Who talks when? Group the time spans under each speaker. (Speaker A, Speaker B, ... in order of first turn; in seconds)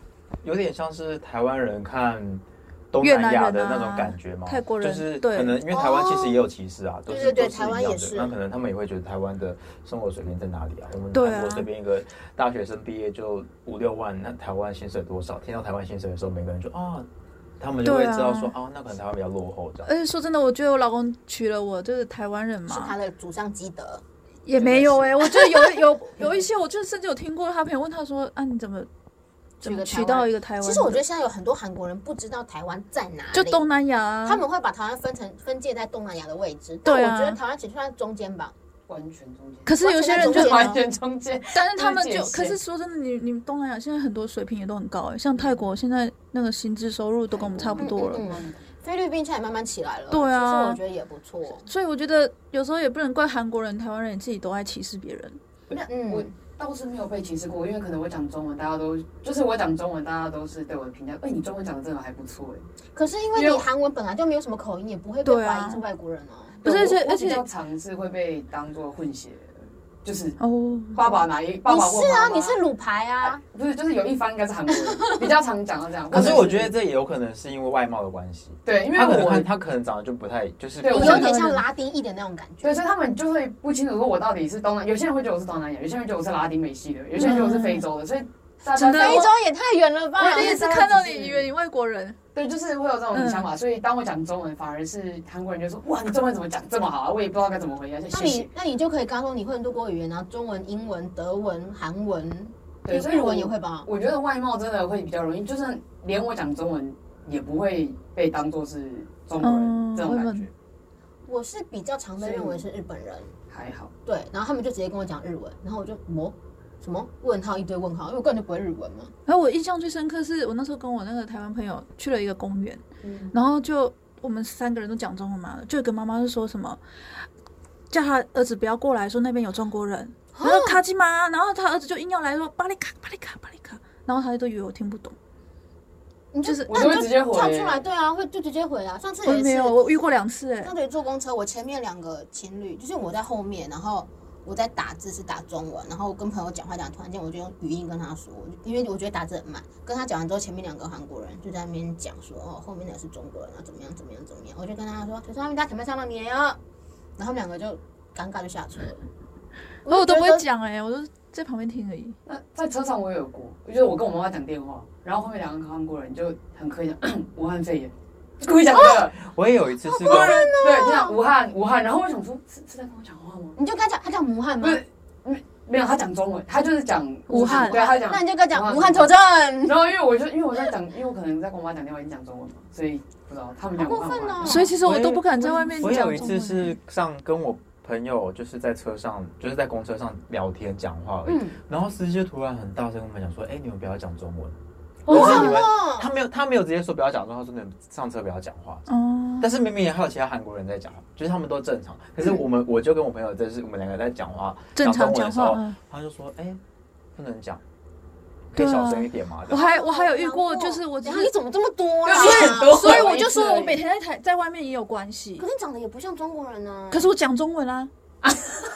Speaker A: 0.4-17.1, 17.6-19.9, 76.1-81.2, 169.2-170.5, 184.8-194.6, 195.1-198.8, 199.4-206.6, 207.1-207.6, 208.5-209.6
Speaker B: 3.0-5.6, 11.1-11.7, 17.8-18.5, 19.8-22.9, 24.4-28.9, 29.6-31.0, 33.3-34.4, 36.8-37.4, 39.6-40.7, 41.5-48.2, 50.1-50.8, 51.6-55.4, 65.2-65.8, 66.6-67.4, 70.4-71.0, 81.0-81.6, 87.2-87.8, 88.7-89.3, 90.2-92.2, 93.1-93.5, 109.4-110.5, 119.2-126.8, 127.9-135.1, 136.4-137.0, 139.2-140.7, 159.9-162.2, 177.3-177.8, 184.4-186.8, 198.9-199.5, 204.8-205.8, 208.5-211.3, 212.1-215.4, 216.9-217.9
Speaker C: 5.7-6.4, 7.1-8.3, 22.7-24.0, 24.6-25.8, 29.6-33.7, 34.2-38.5, 39.8-40.8, 47.8-51.7, 55.7-56.3, 62.9-66.6, 71.7-73.4, 80.9-82.8, 87.2-87.5, 88.9-90.9, 98.1-103.9, 111.2-113.3, 114.0-119.1, 130.3-130.8, 136.3-139.8, 140.6-156.6, 157.2-159.0, 159.8-160.4, 168.7-169.0, 169.9-171.2, 173.6-174.8, 177.3-179.8, 183.8-184.8, 185.4-185.9, 191.2-191.6, 195.1-196.1, 209.5-213.8, 215.4-217.1
Speaker D: 38.9-42.6, 47.3-48.6, 56.0-62.6, 63.3-63.6, 66.6-70.4, 70.9-72.6, 73.2-76.7, 78.6-79.5, 80.8-81.3, 82.6-89.3, 90.2-91.5, 92.3-98.5, 102.8-110.5, 112.2-112.6, 113.5-113.9, 123.0-123.3, 136.7-137.8, 162.2-169.2, 170.0-173.6, 174.6-184.7, 195.1-195.5, 212.0-213.7